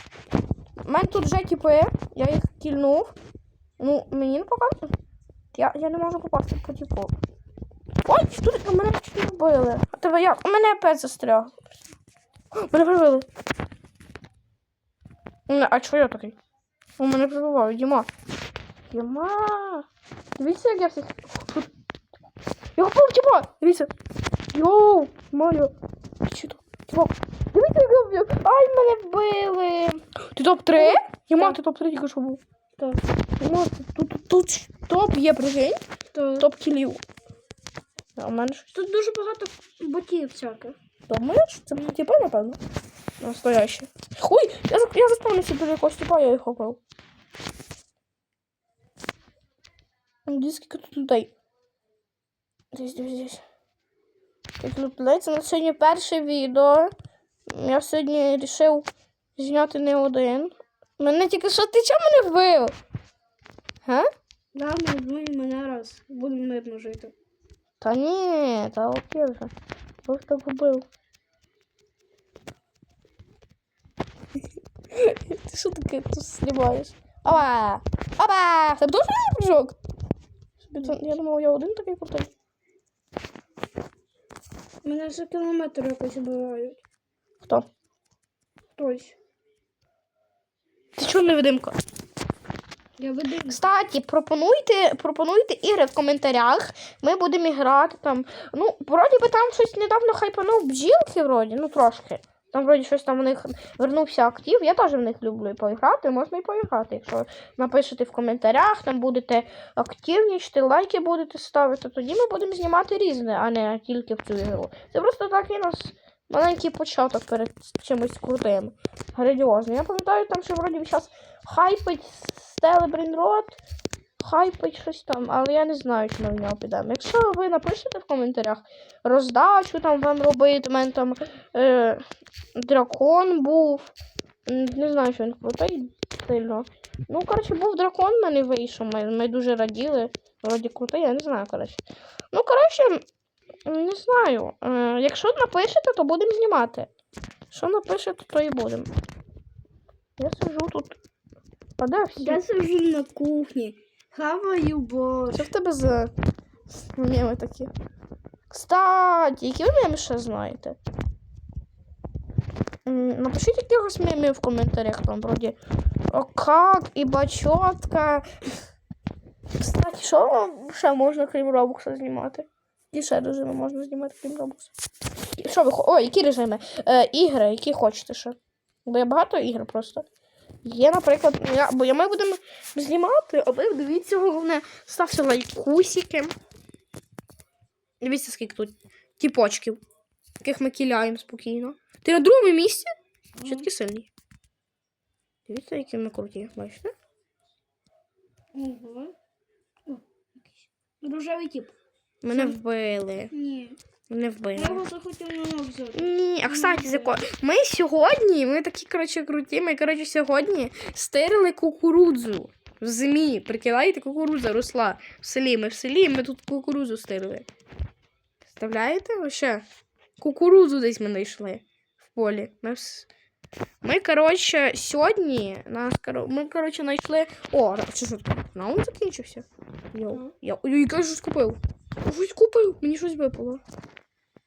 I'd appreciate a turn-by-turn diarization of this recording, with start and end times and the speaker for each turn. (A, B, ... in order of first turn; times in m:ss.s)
0:00.9-0:03.1 A
0:03.8-0:04.9 A
0:05.5-0:07.1 A
0:08.0-0:11.8 A
0:12.5-0:13.3 A
0:15.5-0:16.4 A
0:17.0-0:18.1 A
0:18.9-0:19.9 A
0:20.4-0:21.7 A
0:22.8-0:23.9 A
0:24.5-0:25.7 A
0:26.2-0:32.4 A
0:30.7-0:31.6 B
0:33.4-0:35.8 A
0:36.1-0:36.5 B
0:36.4-0:37.0 A
0:38.2-0:38.7 A
0:38.7-0:40.8 B
0:41.1-0:42.6 A
0:43.2-0:46.8 A
0:50.3-0:51.3 A
0:52.7-0:53.4 A
0:54.6-0:56.9 A
0:57.5-1:02.7 A
1:04.5-1:07.1 B
1:07.8-1:09.5 A
1:10.1-1:10.8 A
1:14.9-1:19.8 A
1:20.6-1:22.3 A
1:24.8-1:26.8 B
1:28.8-1:29.2 B
1:31.0-1:31.8 A
1:33.0-1:33.6 B
1:33.5-2:03.6 A
2:04.2-2:12.0 A
2:12.6-2:13.9 A
2:14.5-2:23.0 A
2:23.7-2:26.9 A
2:27.5-2:28.9 A
2:30.2-2:31.0 A
2:31.8-2:32.4 A
2:32.2-2:35.5 B
2:35.3-2:36.1 A
2:36.7-2:37.7 A
2:38.5-2:40.8 A
2:42.9-2:45.6 A
2:46.1-2:48.3 A
2:49.6-2:54.7 A
2:55.4-3:00.1 A
3:00.6-3:06.3 A
3:08.0-3:09.8 A
3:10.4-3:12.9 A
3:13.4-3:13.7 B
3:13.4-3:14.1 A
3:15.5-3:16.9 A
3:18.5-3:19.2 B
3:19.9-3:21.7 B
3:22.2-3:23.3 A
3:22.3-3:22.6 B
3:23.3-3:23.8 B
3:24.1-3:24.8 A
3:24.6-3:27.2 B
3:25.9-3:37.5 A
3:38.4-3:39.6 A
3:40.2-3:41.6 A
3:42.1-3:43.1 A
3:43.8-3:53.6 A